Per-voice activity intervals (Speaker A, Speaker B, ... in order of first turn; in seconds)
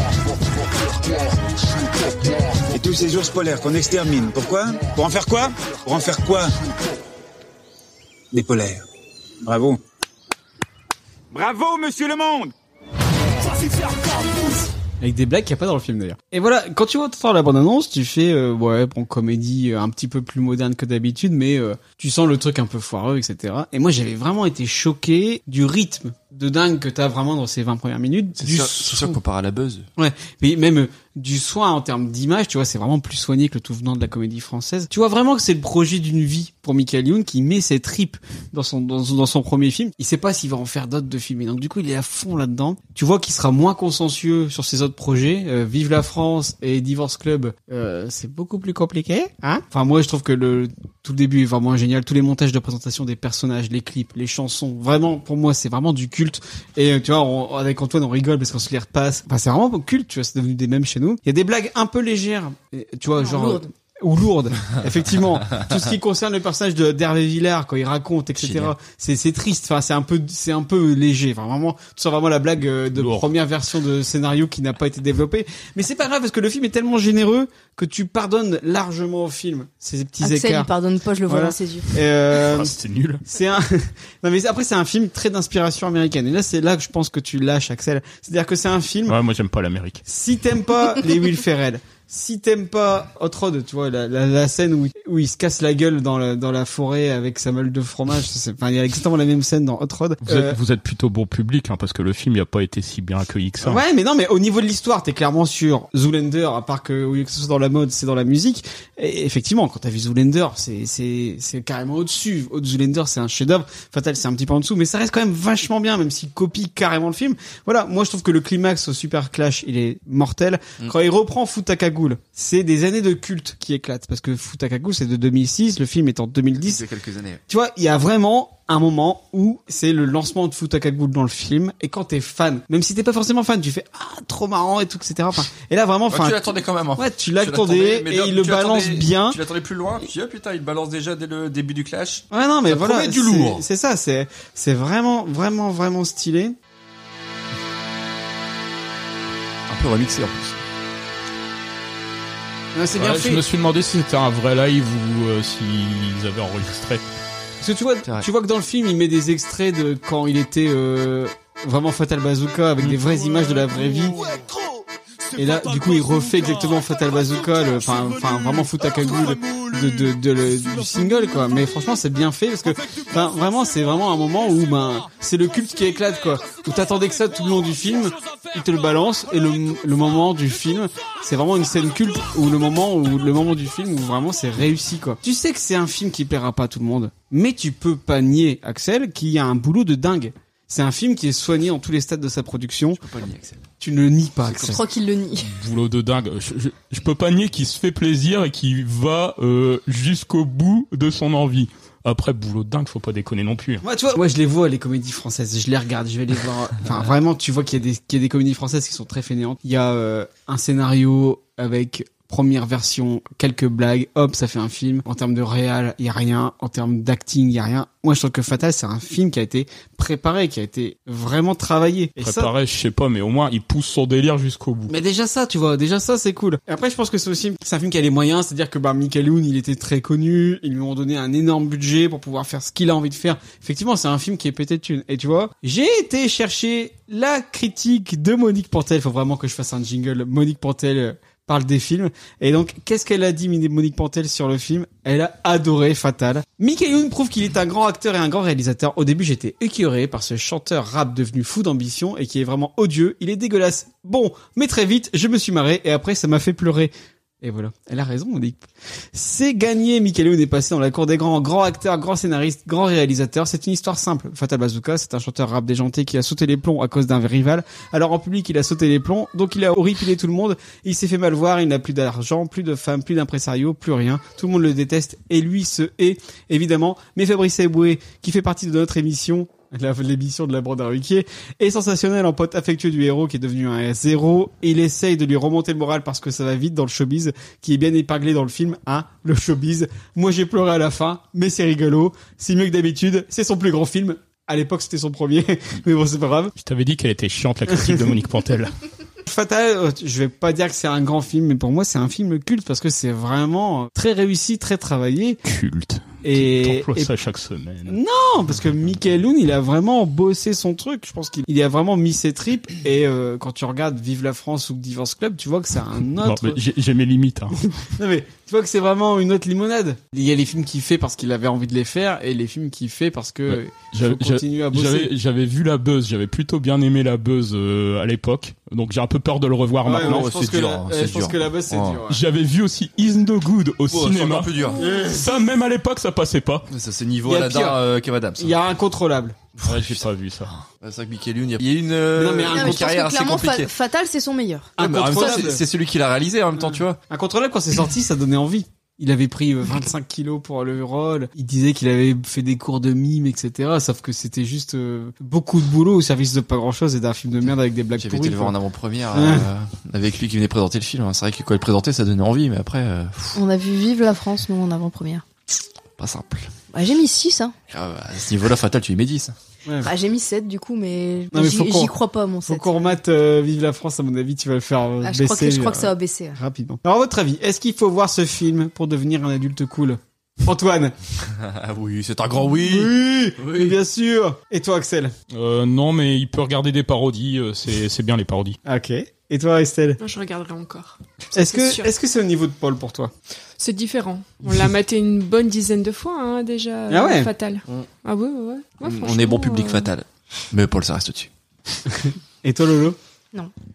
Speaker A: 2.7-6.5, 8.3-8.8, 9.4-9.8, 11.3-12.5
Speaker B: 15.0-29.2, 30.0-80.7, 81.3-82.8, 83.3-89.2, 90.1-100.6, 103.6-126.8, 127.5-139.4, 142.3-146.6, 152.8-153.4, 157.6-164.2, 165.4-193.0, 193.8-194.8, 203.8-222.5, 224.9-296.6, 297.7-298.0, 299.3-305.4, 306.2-307.1, 307.9-316.6, 318.0-325.1, 329.9-332.2, 334.8-335.3, 337.2-337.8, 338.4-339.4, 342.2-342.9, 344.8-345.6, 346.6-358.6, 359.1-359.5, 369.7-369.9, 371.3-371.9, 372.5-380.9, 382.6-385.1, 388.7-390.0, 391.4-393.1, 396.9-397.3, 402.0-403.0
Speaker C: 28.4-29.9, 68.4-68.7, 126.6-127.4, 136.1-143.6, 149.7-150.6, 192.9-193.7, 194.4-194.8, 330.0-332.0, 333.9-334.8, 336.7-338.6, 339.6-340.1, 340.6-343.7, 344.8-347.0, 358.0-363.4, 366.0-366.5, 367.7-369.4, 381.3-383.8, 398.8-401.3
Speaker D: 63.2-63.7, 80.2-81.9, 194.6-195.5, 334.8-335.1, 342.5-345.5, 363.4-365.2, 366.7-367.6, 369.8-372.9, 375.0-376.4
Speaker E: 73.0-73.3, 82.4-83.2, 89.1-90.0, 100.2-103.8, 153.0-157.0, 195.5-203.8, 222.2-224.9, 296.6-298.7, 305.4-308.0, 316.2-317.6, 323.5-330.3, 332.1-336.7, 339.6-340.5, 385.3-388.6
Speaker F: 390.0-391.9, 393.6-399.9